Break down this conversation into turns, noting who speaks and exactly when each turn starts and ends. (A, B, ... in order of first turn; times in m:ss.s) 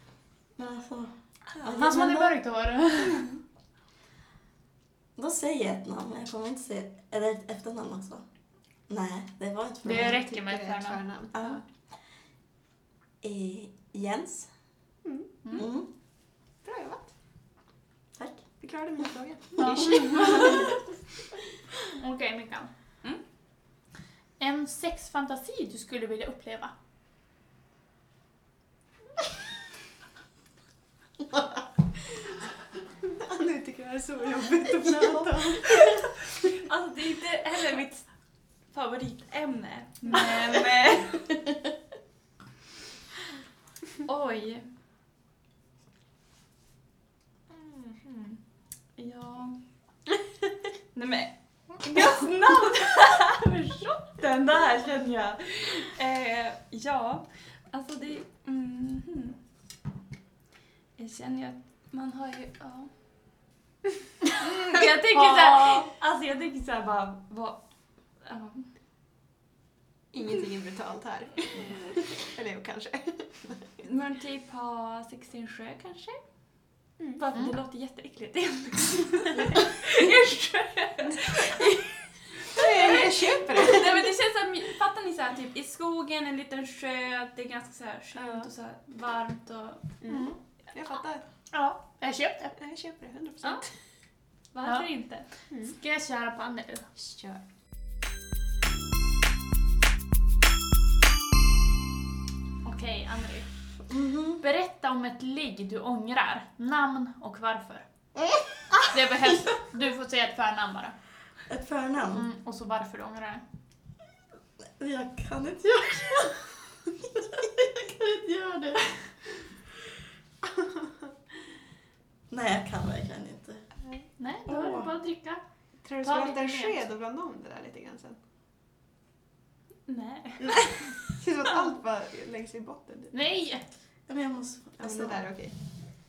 0:00.6-0:02.4 A
0:01.6-0:03.3 B
0:05.2-0:08.2 A
0:08.9-0:10.2 A
0:09.8-0:11.0 B
0:10.0-0:11.6 C
0:11.3-0:11.6 A
0:13.2-0:14.5 A
0:15.0-0:15.3 C
0:15.5-0:15.9 A
0:16.6-0:17.1 C
0:18.2-0:18.4 A
0:18.6-0:20.8 C
0:19.6-0:20.7 B
0:21.9-0:22.7 B
0:24.4-0:26.7 B
0:33.1-0:36.1 C
0:36.5-0:38.1 D
0:38.7-0:41.3 D
0:44.0-0:44.7 D
0:47.5-0:48.4 D
0:49.0-0:49.6 D
0:50.9-0:59.4 D
1:01.0-1:02.9 D
1:04.3-1:07.6 D
1:05.1-1:05.9 B
1:08.2-1:08.7 D
1:10.1-1:13.7 C
1:13.8-1:16.2 D
1:17.2-1:21.8 D
1:22.5-1:24.1 C
1:22.5-1:29.9 D
1:28.2-1:28.5 C
1:30.0-1:31.2 C
1:30.1-1:30.4 B
1:31.5-1:32.5 B
1:32.6-1:33.7 C
1:34.5-1:35.3 D
1:35.6-1:36.9 B
1:37.0-1:37.4 C
1:42.6-1:43.5 B
1:43.9-1:44.4 A
1:44.4-1:47.8 B
1:48.2-1:48.8 A
1:48.8-1:50.9 B
1:51.5-1:52.3 A
1:52.1-1:53.4 B
1:54.8-1:58.9 A
2:02.3-2:03.6 A
2:04.2-2:05.4 B
2:04.4-2:04.9 A
2:05.8-2:08.2 C
2:06.0-2:06.8 B
2:09.9-2:10.9 D
2:10.4-2:13.1 C
2:13.1-2:13.6 B
2:14.1-2:15.2 A
2:14.8-2:15.5 C